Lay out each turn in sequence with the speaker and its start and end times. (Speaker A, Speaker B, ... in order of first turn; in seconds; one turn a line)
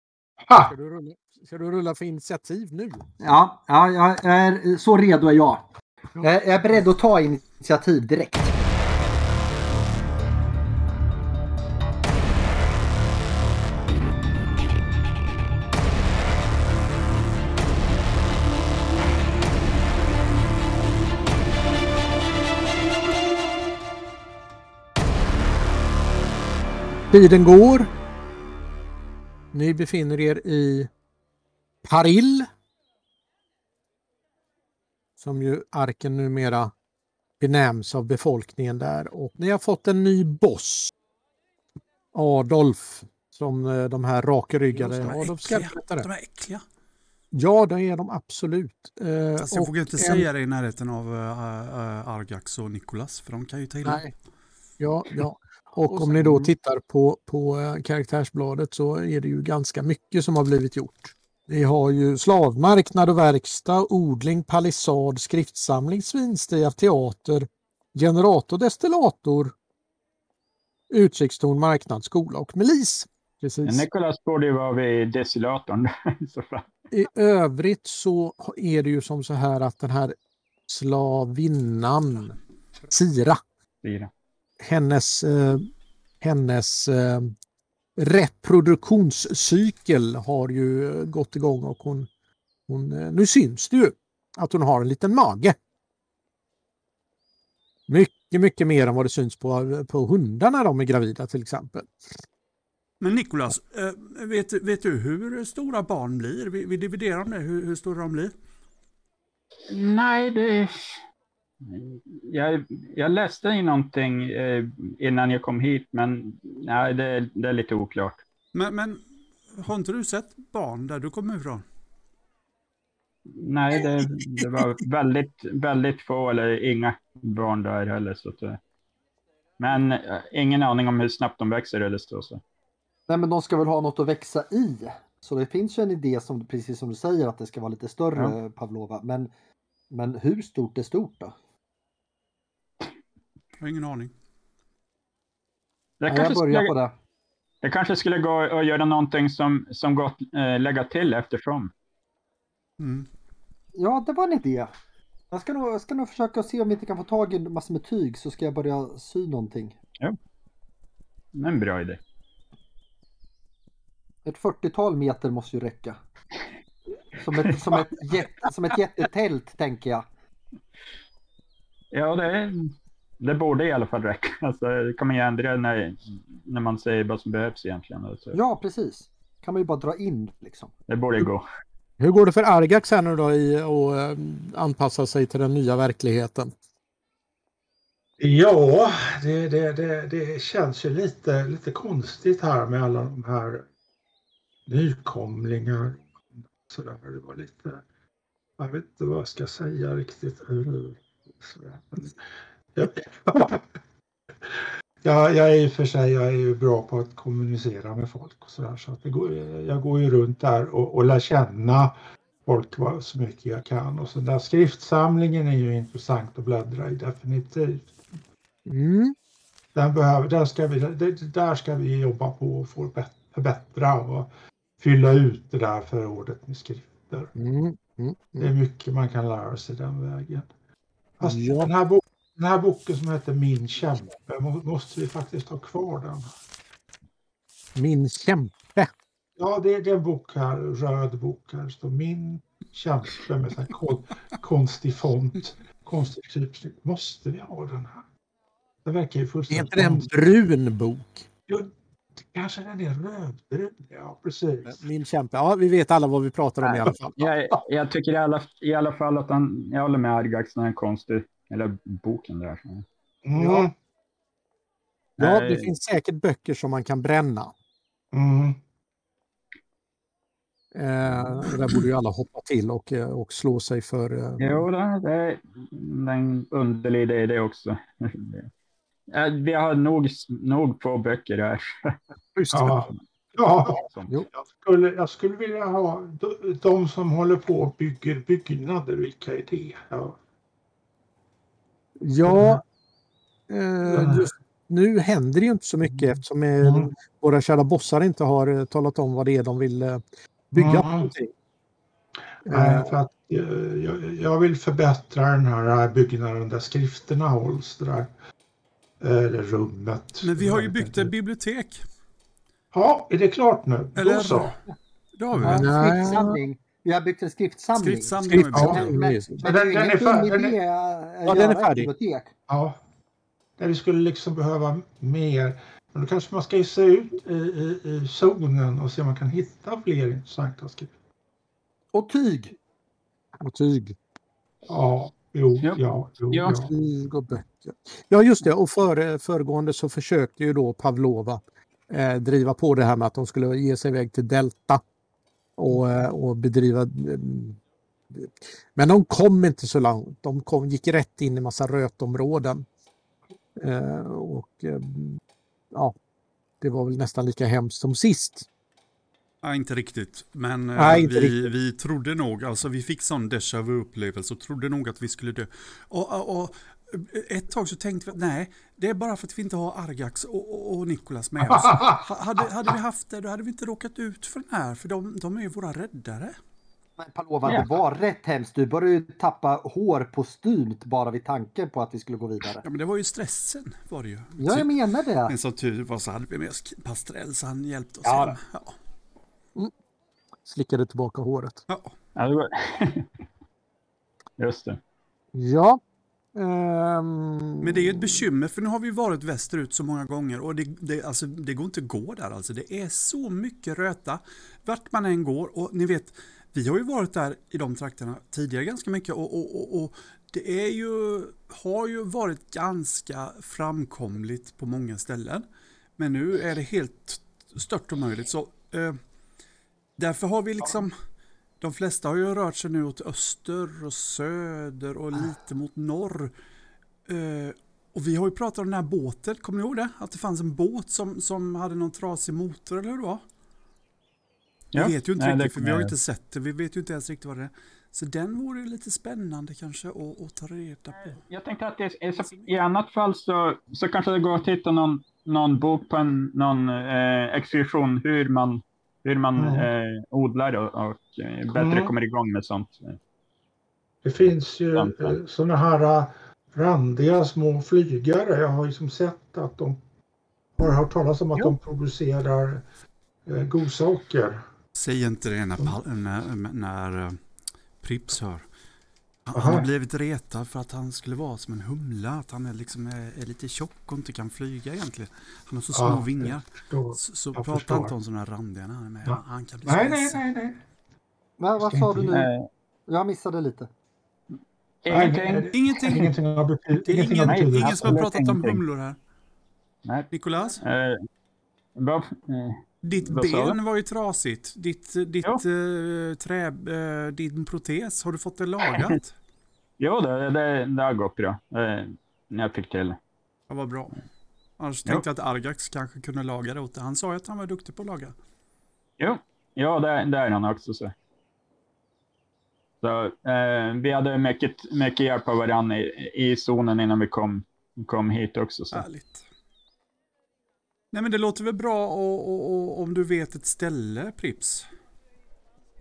Speaker A: 0.4-0.7
Speaker B: 0.6-3.1
Speaker C: 3.2-5.6
Speaker C: 6.2-8.6
Speaker B: 27.1-27.9
Speaker B: 29.5-30.9
Speaker B: 31.8-32.5
Speaker B: 35.2-36.7
Speaker B: 37.4-40.9
Speaker B: 42.1-46.1
Speaker D: 44.7-46.6
Speaker B: 47.3-50.3
Speaker D: 49.4-54.0
Speaker B: 53.8-54.1
Speaker B: 54.8-69.5
Speaker C: 55.9-56.5
Speaker B: 70.9-73.9
Speaker E: 73.7-76.7
Speaker B: 76.9-80.2
Speaker B: 80.7-82.4
Speaker B: 82.9-83.4
Speaker E: 83.8-84.1
Speaker B: 84.6-85.7
Speaker B: 86.2-87.3
Speaker B: 88.0-92.1
Speaker B: 92.7-95.6
Speaker B: 97.9-101.9
Speaker D: 103.0-108.3
Speaker E: 109.7-111.0
Speaker E: 111.6-118.2
Speaker D: 118.5-119.0
Speaker D: 119.5-121.7
Speaker E: 123.4-128.6
Speaker B: 124.0-124.7
Speaker E: 129.6-132.4
Speaker C: 133.1-139.3
Speaker C: 139.9-141.3
Speaker D: 143.6-144.1
Speaker E: 146.0-146.7
Speaker C: 146.1-146.9
Speaker E: 147.6-151.7
Speaker D: 152.8-153.1
Speaker C: 153.8-154.7
Speaker C: 155.3-159.8
Speaker E: 161.3-162.0
Speaker C: 164.2-166.0
Speaker C: 167.2-170.1
Speaker E: 171.9-178.4
Speaker C: 178.3-180.7
Speaker E: 180.9-181.4
Speaker B: 182.0-186.5
Speaker A: 188.2-193.7
Speaker A: 194.7-197.8
Speaker A: 198.6-202.2
Speaker A: 202.8-203.6
Speaker A: 205.0-211.9
Speaker A: 212.4-217.9
Speaker B: 218.7-219.2
Speaker A: 219.8-224.3
Speaker A: 224.8-227.3
Speaker B: 227.4-228.5
Speaker A: 228.4-230.5
Speaker A: 231.2-236.3
Speaker B: 231.2-231.7
Speaker B: 237.8-238.9
Speaker A: 239.4-248.0
Speaker A: 248.8-250.1
Speaker B: 249.5-251.3
Speaker A: 252.3-254.8
Speaker B: 254.7-257.3
Speaker E: 256.6-262.9
Speaker A: 263.2-263.7
Speaker E: 265.2-265.7
Speaker B: 265.2-267.5
Speaker A: 268.1-268.6
Speaker B: 270.7-274.7
Speaker E: 274.4-278.5
Speaker E: 279.1-281.9
Speaker B: 282.4-282.9
Speaker A: 282.5-290.2
Speaker E: 283.9-284.1
Speaker B: 292.0-292.6
Speaker A: 292.2-292.6
Speaker B: 293.5-300.0
Speaker A: 293.9-294.3
Speaker A: 296.6-296.9
Speaker B: 300.5-301.3
Speaker A: 300.5-301.1
Speaker B: 302.5-303.0
Speaker A: 302.5-308.1
Speaker A: 309.0-311.1
Speaker D: 310.2-311.8
Speaker A: 312.7-314.5
Speaker D: 314.0-314.6
Speaker D: 315.1-315.7
Speaker C: 315.4-322.3
Speaker B: 315.4-316.4
Speaker D: 317.8-319.0
Speaker B: 318.3-319.5
Speaker A: 319.4-320.6
Speaker B: 321.3-321.9
Speaker A: 322.5-322.8
Speaker A: 323.6-330.9
Speaker C: 331.9-332.6
Speaker B: 333.4-334.0
Speaker A: 334.7-336.7
Speaker B: 336.4-344.8
Speaker B: 345.6-347.6
Speaker B: 348.1-352.7
Speaker B: 353.6-355.2
Speaker B: 356.6-358.5
Speaker D: 359.4-376.4
Speaker B: 360.8-361.5
Speaker A: 371.5-372.0
Speaker C: 377.0-382.6
Speaker E: 377.4-377.7
Speaker D: 382.6-384.7
Speaker C: 384.4-385.3
Speaker D: 385.3-388.8
Speaker C: 388.1-388.4
Speaker B: 390.4-391.6
Speaker D: 391.7-391.9
Speaker E: 392.2-393.1
Speaker E: 394.4-394.8
Speaker B: 395.3-395.8
Speaker B: 396.3-398.2
Speaker D: 397.6-415.5
Speaker D: 416.0-419.0
Speaker D: 420.0-420.9
Speaker D: 421.6-426.3
Speaker D: 427.1-433.2
Speaker E: 434.7-435.9
Speaker D: 434.7-441.2
Speaker E: 441.1-453.0
Speaker D: 442.2-442.5
Speaker A: 449.4-449.7
Speaker A: 451.6-451.9
Speaker A: 454.0-459.8
Speaker E: 454.7-455.2
Speaker A: 460.6-462.6
Speaker A: 463.3-464.4
Speaker D: 464.8-467.2
Speaker D: 467.8-468.5
Speaker D: 469.3-480.2
Speaker A: 469.4-469.7
Speaker A: 475.7-477.9
Speaker A: 479.1-480.6
Speaker C: 481.4-482.3
Speaker A: 481.6-482.1
Speaker E: 482.1-482.5
Speaker C: 482.9-483.7
Speaker E: 484.8-486.1
Speaker A: 484.9-488.1
Speaker D: 485.5-486.0
Speaker D: 486.9-489.0
Speaker E: 487.3-488.6
Speaker E: 489.9-491.0
Speaker D: 490.1-490.6
Speaker E: 491.8-493.6
Speaker D: 492.8-499.1
Speaker E: 499.8-503.0
Speaker D: 503.5-504.0
Speaker D: 504.6-508.1
Speaker E: 509.0-510.9
Speaker E: 512.8-518.8
Speaker D: 518.7-519.2
Speaker D: 520.9-524.7